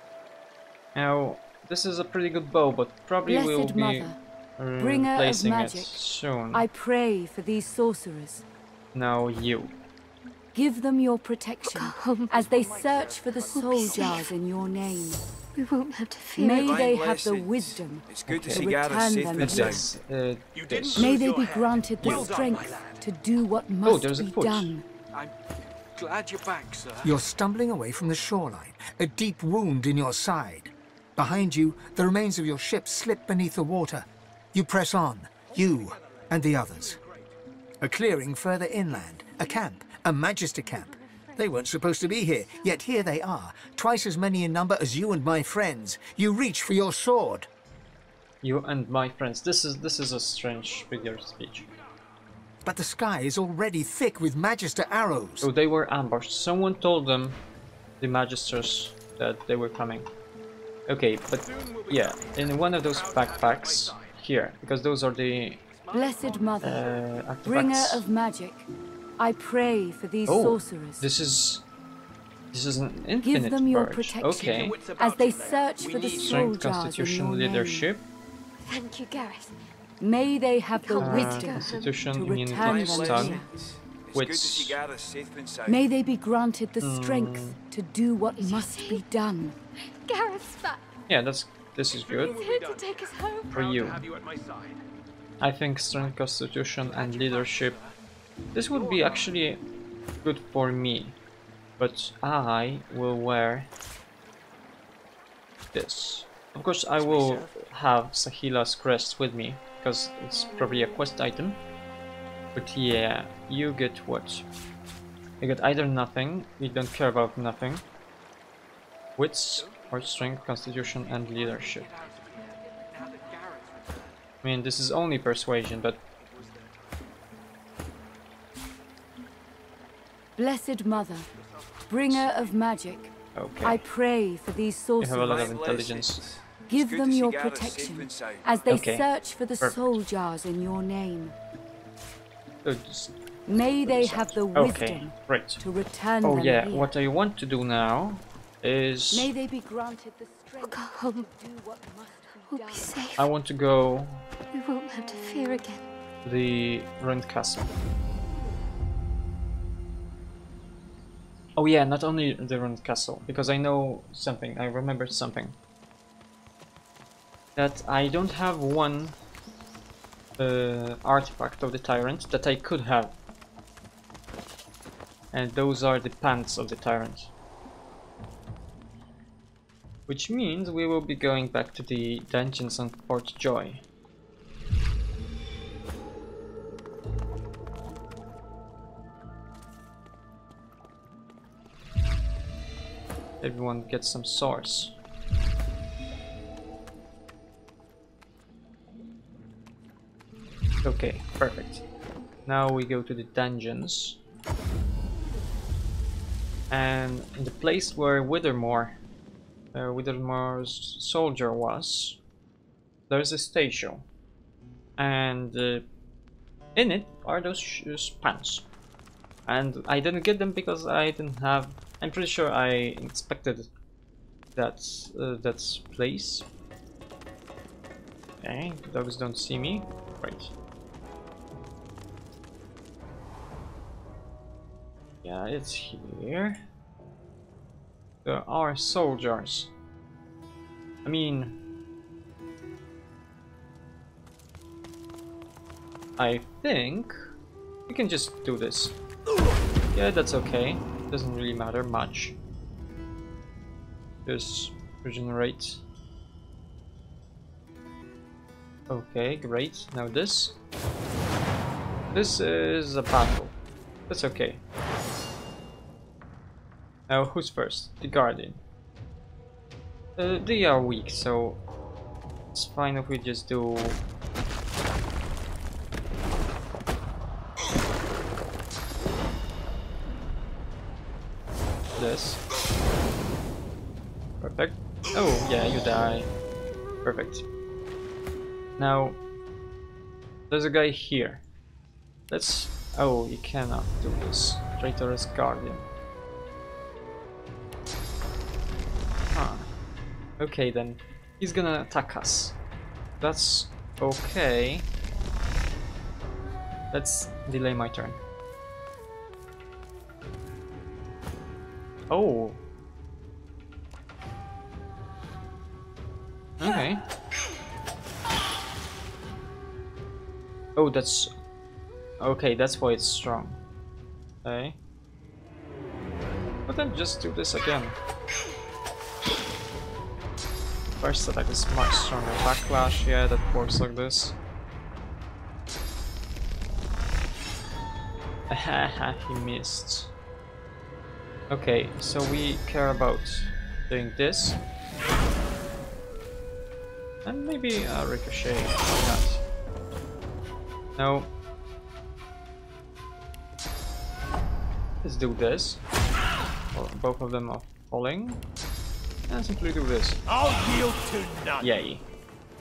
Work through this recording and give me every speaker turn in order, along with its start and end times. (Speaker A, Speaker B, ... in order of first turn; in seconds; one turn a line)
Speaker A: 0.9-6.7
Speaker B: 3.3-4.2
Speaker B: 4.8-5.9
Speaker B: 6.5-8.4
Speaker A: 8.9-9.8
Speaker B: 10.5-15.2
Speaker C: 11.7-12.4
Speaker D: 12.5-14.2
Speaker C: 13.4-14.3
Speaker C: 15.6-16.8
Speaker B: 16.4-19.9
Speaker E: 16.5-19.9
Speaker A: 18.3-18.8
Speaker A: 19.4-21.1
Speaker D: 20.5-23.0
Speaker B: 21.0-24.9
Speaker F: 22.0-23.0
Speaker A: 22.0-22.3
Speaker A: 23.8-24.7
Speaker F: 25.9-27.2
Speaker G: 27.0-37.0
Speaker D: 35.5-37.3
Speaker G: 37.8-47.5
Speaker C: 40.7-41.5
Speaker A: 48.4-51.7
Speaker G: 52.6-55.5
Speaker A: 55.4-57.4
Speaker A: 58.0-60.1
Speaker A: 60.9-65.6
Speaker D: 61.5-64.1
Speaker F: 65.7-66.6
Speaker B: 65.9-71.1
Speaker D: 66.2-66.5
Speaker A: 66.6-68.0
Speaker A: 70.3-71.7
Speaker A: 72.5-74.8
Speaker B: 73.2-77.9
Speaker F: 74.3-75.7
Speaker D: 74.8-75.8
Speaker E: 75.8-76.2
Speaker A: 76.0-78.0
Speaker C: 78.7-79.6
Speaker B: 80.0-83.5
Speaker C: 80.8-82.0
Speaker A: 81.0-83.4
Speaker E: 82.6-85.9
Speaker A: 84.1-84.8
Speaker B: 85.7-89.6
Speaker A: 86.8-87.6
Speaker C: 88.4-89.0
Speaker C: 89.9-90.8
Speaker A: 91.1-92.4
Speaker D: 92.0-94.8
Speaker C: 92.2-93.7
Speaker A: 93.5-94.0
Speaker A: 95.4-97.8
Speaker F: 96.8-97.9
Speaker A: 98.5-99.6
Speaker D: 98.8-99.2
Speaker F: 98.8-99.3
Speaker A: 100.2-101.2
Speaker A: 101.8-103.7
Speaker A: 105.7-111.6
Speaker D: 107.1-107.5
Speaker F: 107.1-107.5
Speaker A: 112.5-114.5
Speaker A: 115.4-117.8
Speaker A: 119.2-121.9
Speaker F: 119.5-120.3
Speaker F: 121.0-124.2
Speaker A: 124.4-126.0
Speaker B: 130.4-131.3
Speaker B: 131.9-133.1
Speaker A: 133.3-133.8
Speaker B: 133.6-135.5
Speaker A: 135.0-136.2
Speaker E: 135.2-138.7
Speaker B: 136.7-141.3
Speaker A: 138.7-139.1
Speaker A: 139.6-139.9
Speaker A: 142.7-143.2
Speaker B: 143.5-146.9
Speaker A: 143.8-145.6
Speaker A: 146.2-149.3
Speaker B: 149.1-153.1
Speaker C: 150.6-151.3
Speaker C: 152.2-153.3
Speaker A: 153.2-154.3
Speaker C: 154.5-155.9
Speaker A: 156.2-157.7
Speaker A: 161.6-165.6
Speaker A: 167.6-169.2
Speaker A: 170.4-173.2
Speaker A: 175.3-177.3
Speaker A: 180.1-183.8
Speaker A: 193.4-195.0
Speaker A: 200.8-201.8
Speaker A: 202.5-204.2
Speaker A: 206.7-209.0
Speaker A: 209.7-212.2
Speaker A: 213.1-214.1
Speaker A: 215.0-215.9
Speaker A: 216.8-218.7
Speaker A: 219.5-223.7
Speaker A: 224.6-226.5
Speaker A: 228.4-230.5
Speaker A: 235.2-236.6
Speaker A: 238.2-239.7
Speaker A: 241.1-241.6
Speaker A: 246.2-247.2
Speaker A: 247.9-249.0
Speaker A: 249.9-252.4
Speaker A: 254.3-255.8
Speaker A: 258.9-260.6
Speaker A: 262.1-263.6
Speaker A: 264.1-264.6
Speaker A: 267.1-268.6
Speaker A: 270.2-271.6
Speaker A: 272.5-274.0
Speaker A: 282.0-282.4
Speaker A: 284.4-286.3
Speaker A: 287.0-287.4
Speaker A: 288.8-289.2
Speaker A: 290.5-291.4
Speaker A: 292.3-295.9
Speaker A: 299.3-299.7
Speaker A: 300.4-302.6
Speaker A: 303.2-304.9
Speaker A: 306.9-308.2
Speaker A: 312.1-312.6
Speaker A: 316.6-317.1
Speaker A: 320.8-321.3
Speaker A: 322.2-323.6
Speaker A: 324.4-324.8
Speaker A: 326.7-328.0
Speaker A: 331.0-334.4
Speaker A: 338.5-340.1
Speaker A: 341.5-344.6
Speaker A: 347.2-349.4
Speaker A: 351.0-351.3
Speaker A: 355.0-355.8
Speaker A: 356.7-358.4
Speaker A: 359.3-360.2
Speaker D: 360.3-361.6
Speaker A: 361.6-362.1